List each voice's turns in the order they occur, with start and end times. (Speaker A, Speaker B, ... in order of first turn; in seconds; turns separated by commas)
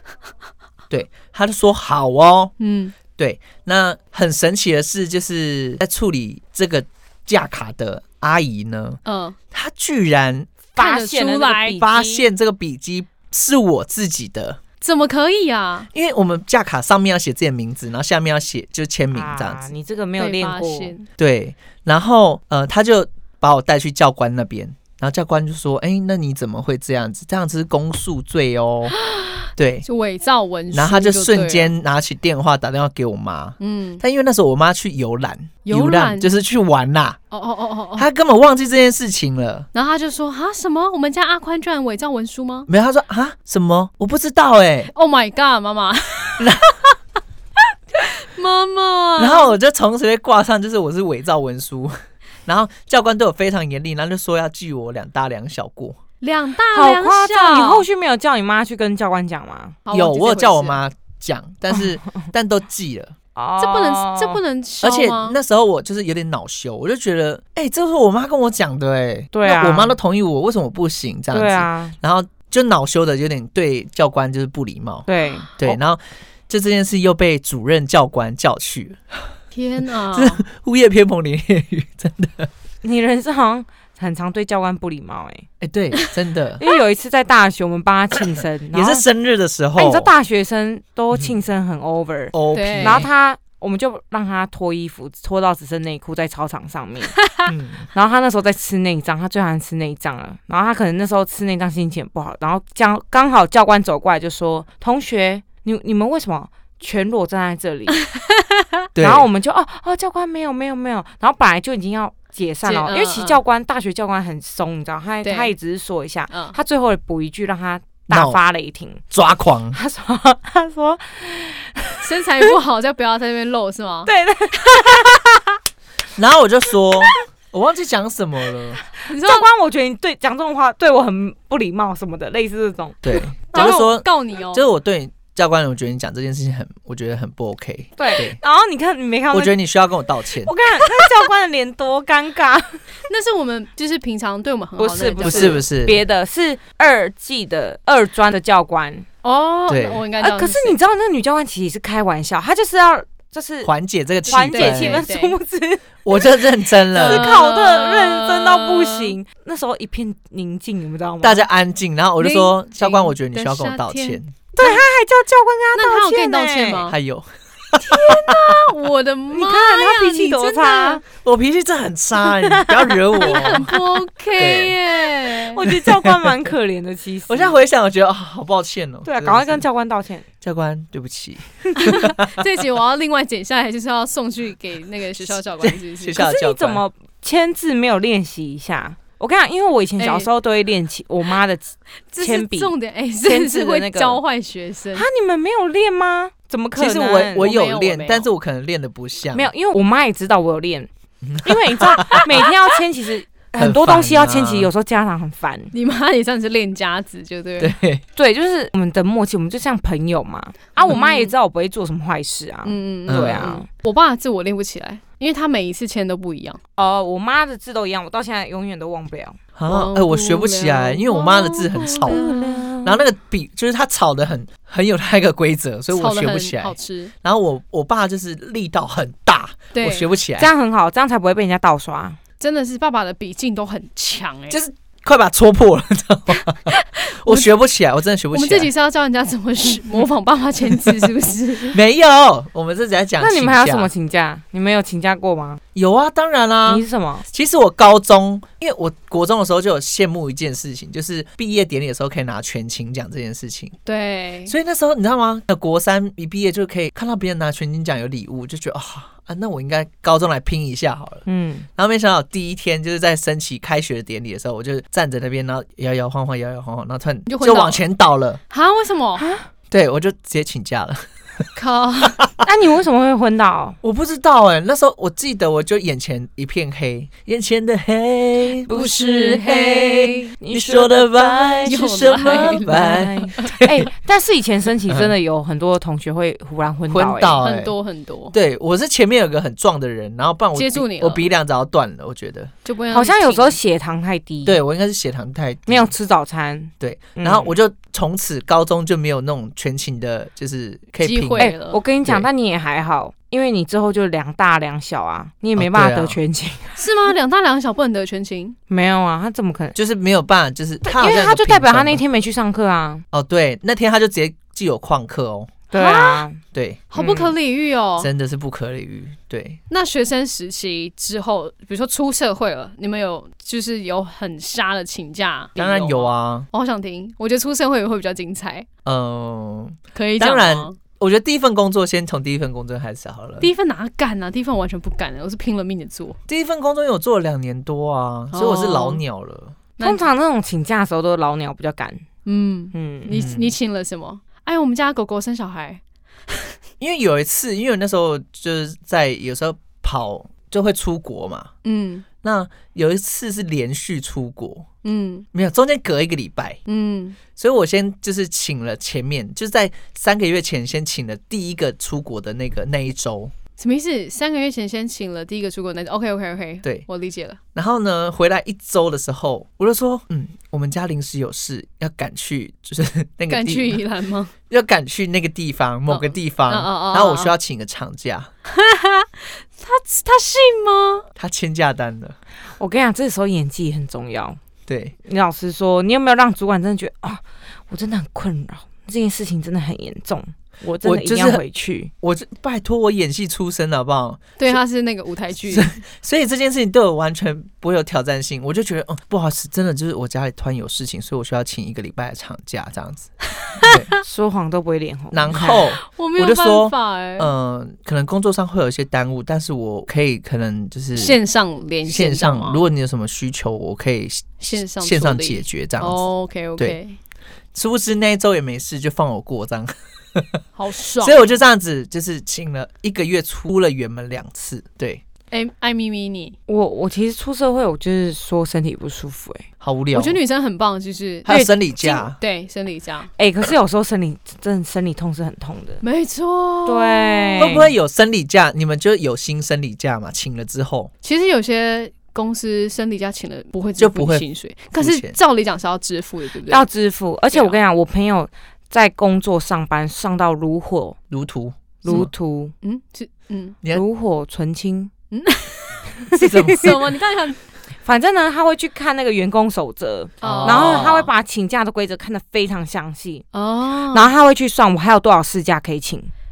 Speaker A: 0.9-2.5, Speaker B: 2.6-2.9, Speaker A: 3.2-9.0, Speaker B: 9.1-9.4, Speaker A: 9.5-10.6, Speaker C: 10.7-12.3, Speaker B: 10.8-11.8, Speaker A: 11.8-14.6, Speaker B: 14.8-15.9, Speaker A: 15.9-19.7, Speaker C: 19.1-20.9, Speaker B: 20.2-21.1, Speaker A: 21.2-28.9, Speaker B: 28.9-31.7, Speaker A: 29.6-29.9, Speaker A: 30.7-37.2, Speaker B: 33.6-34.0, Speaker B: 35.6-36.3, Speaker B: 37.3-38.1, Speaker A: 38.0-39.7, Speaker B: 39.7-42.7, Speaker A: 42.7-44.9, Speaker B: 44.9-46.6, Speaker A: 46.4-46.8, Speaker B: 47.9-49.5, Speaker A: 49.2-56.0, Speaker B: 56.2-57.9, Speaker C: 56.7-59.8, Speaker B: 59.9-60.8, Speaker A: 59.9-63.1, Speaker C: 63.4-64.4, Speaker B: 63.6-65.4, Speaker A: 64.8-79.3, Speaker C: 69.3-70.0, Speaker C: 71.3-72.0, Speaker C: 75.1-75.8, Speaker B: 79.5-80.5, Speaker A: 80.1-82.5, Speaker C: 82.8-85.5, Speaker A: 85.6-86.6, Speaker C: 86.6-89.0, Speaker A: 88.7-90.1, Speaker C: 89.8-97.2, Speaker A: 92.3-93.1, Speaker B: 92.5-93.1, Speaker A: 97.5-97.9, Speaker C: 97.9-108.0, Speaker A: 109.0-109.3, Speaker C: 109.0-119.0, Speaker B: 112.7-113.4, Speaker B: 115.2-115.5, Speaker B: 116.3-116.6, Speaker A: 118.1-118.4, Speaker A: 119.1-119.8, Speaker C: 119.7-122.4, Speaker B: 122.0-124.1, Speaker C: 124.1-125.4, Speaker A: 126.2-128.8, Speaker C: 129.0-133.0, Speaker B: 129.1-129.5, Speaker A: 133.0-138.4, Speaker B: 133.5-134.6, Speaker C: 138.0-139.6, Speaker A: 139.3-140.5, Speaker C: 140.4-142.8, Speaker B: 143.1-145.6, Speaker C: 144.8-149.1, Speaker A: 145.2-146.0, Speaker B: 149.2-150.8, Speaker A: 149.7-150.0, Speaker C: 150.2-153.7, Speaker A: 153.6-155.1, Speaker C: 154.3-156.3, Speaker B: 154.3-155.3, Speaker A: 156.1-157.4, Speaker C: 156.9-161.4, Speaker B: 157.0-159.1, Speaker A: 161.2-164.4, Speaker B: 162.2-164.8, Speaker C: 164.6-166.9, Speaker B: 165.8-167.0, Speaker A: 166.9-168.6, Speaker B: 167.8-171.0, Speaker C: 169.3-171.0, Speaker A: 171.1-173.8, Speaker C: 172.4-173.7, Speaker B: 173.2-175.6, Speaker A: 174.4-174.8, Speaker C: 175.2-177.6, Speaker A: 175.6-176.5, Speaker A: 177.3-179.7, Speaker C: 179.1-180.3, Speaker A: 180.4-182.4, Speaker B: 181.8-186.2, Speaker A: 185.6-186.8, Speaker C: 186.2-194.2, Speaker B: 190.0-190.3, Speaker B: 192.1-195.1, Speaker C: 194.9-197.5, Speaker A: 196.8-199.5, Speaker B: 197.4-198.3, Speaker C: 199.3-200.9, Speaker A: 201.2-202.3, Speaker C: 201.4-205.7, Speaker B: 202.1-202.4, Speaker A: 203.6-204.7, Speaker B: 205.7-207.8, Speaker A: 207.6-208.0, Speaker C: 208.2-213.7, Speaker B: 210.9-211.3, Speaker B: 212.7-216.6, Speaker A: 213.1-213.6, Speaker C: 216.8-219.4, Speaker A: 219.6-222.2, Speaker B: 219.7-222.6, Speaker C: 221.8-223.0, Speaker A: 222.8-230.5, Speaker B: 225.9-227.1, Speaker B: 229.7-230.1, Speaker C: 230.4-232.2, Speaker B: 232.4-234.6, Speaker A: 234.5-238.7, Speaker B: 236.4-237.5, Speaker B: 238.3-241.8, Speaker A: 241.7-243.9, Speaker C: 243.2-245.6, Speaker A: 245.7-253.7, Speaker C: 246.7-247.2, Speaker B: 253.8-254.5, Speaker A: 254.5-261.2, Speaker C: 261.3-261.7, Speaker A: 261.8-268.4, Speaker B: 267.3-267.8, Speaker B: 268.5-269.2, Speaker C: 269.2-269.5, Speaker A: 269.7-271.4, Speaker B: 271.6-272.2, Speaker C: 272.4-273.8, Speaker A: 273.8-278.7, Speaker C: 278.7-287.4, Speaker B: 278.7-280.3, Speaker A: 280.5-283.9, Speaker B: 281.7-283.5, Speaker A: 284.9-285.1, Speaker A: 286.9-287.8, Speaker B: 287.4-288.4, Speaker A: 288.3-292.5, Speaker B: 290.6-291.3, Speaker B: 292.6-293.6, Speaker C: 292.9-294.6, Speaker A: 294.4-295.9, Speaker C: 295.7-297.6, Speaker A: 296.8-301.5, Speaker B: 301.0-301.8, Speaker C: 301.4-307.1, Speaker A: 305.6-306.2, Speaker B: 306.8-308.6, Speaker C: 308.7-309.8, Speaker A: 309.8-312.0, Speaker C: 310.9-313.0, Speaker A: 313.1-315.6, Speaker C: 315.7-316.4, Speaker B: 315.7-316.3, Speaker A: 316.5-316.9, Speaker B: 316.9-318.1, Speaker C: 317.0-317.4, Speaker A: 318.0-319.6, Speaker B: 319.7-328.7, Speaker A: 325.6-326.5, Speaker A: 328.9-333.5, Speaker B: 329.9-330.8, Speaker B: 333.4-336.2, Speaker A: 336.3-339.6, Speaker B: 338.3-339.0, Speaker B: 339.8-340.1, Speaker C: 339.8-342.0, Speaker B: 342.3-346.5, Speaker C: 342.7-343.1, Speaker A: 343.1-343.6, Speaker A: 346.8-351.5, Speaker B: 351.6-352.1, Speaker A: 352.2-354.7, Speaker B: 354.8-355.3, Speaker A: 355.3-356.6, Speaker B: 356.7-357.2, Speaker A: 357.4-363.3, Speaker B: 363.6-367.4, Speaker A: 367.6-373.8, Speaker B: 373.3-374.3, Speaker A: 374.5-378.3, Speaker B: 375.9-377.3, Speaker B: 378.5-381.1, Speaker A: 381.2-382.2, Speaker C: 382.6-384.4, Speaker A: 384.7-384.9, Speaker C: 385.1-391.9, Speaker A: 390.8-391.4, Speaker A: 392.0-394.6, Speaker B: 394.4-395.7, Speaker A: 395.5-403.9, Speaker B: 403.5-404.0, Speaker C: 404.0-405.7, Speaker A: 405.1-411.2, Speaker B: 405.5-407.3, Speaker B: 411.0-412.6, Speaker A: 411.9-416.0, Speaker B: 414.4-417.0, Speaker A: 417.6-420.4, Speaker B: 420.6-421.4, Speaker A: 421.0-425.0, Speaker B: 425.3-426.4, Speaker C: 426.5-429.5, Speaker A: 429.6-430.2, Speaker B: 429.9-433.1, Speaker A: 431.3-432.2, Speaker C: 433.2-435.8, Speaker B: 435.8-437.6, Speaker C: 436.7-437.7, Speaker A: 437.4-440.9, Speaker B: 441.0-446.6, Speaker A: 443.8-444.2, Speaker A: 444.8-445.2, Speaker C: 446.5-451.0, Speaker A: 451.1-452.1, Speaker C: 451.8-452.5, Speaker B: 452.6-453.6, Speaker C: 453.7-454.9, Speaker B: 455.1-457.4, Speaker A: 456.1-456.8, Speaker C: 456.2-456.7, Speaker C: 457.8-463.3, Speaker B: 460.2-461.0, Speaker A: 460.2-461.1, Speaker B: 463.3-464.1, Speaker C: 463.9-466.1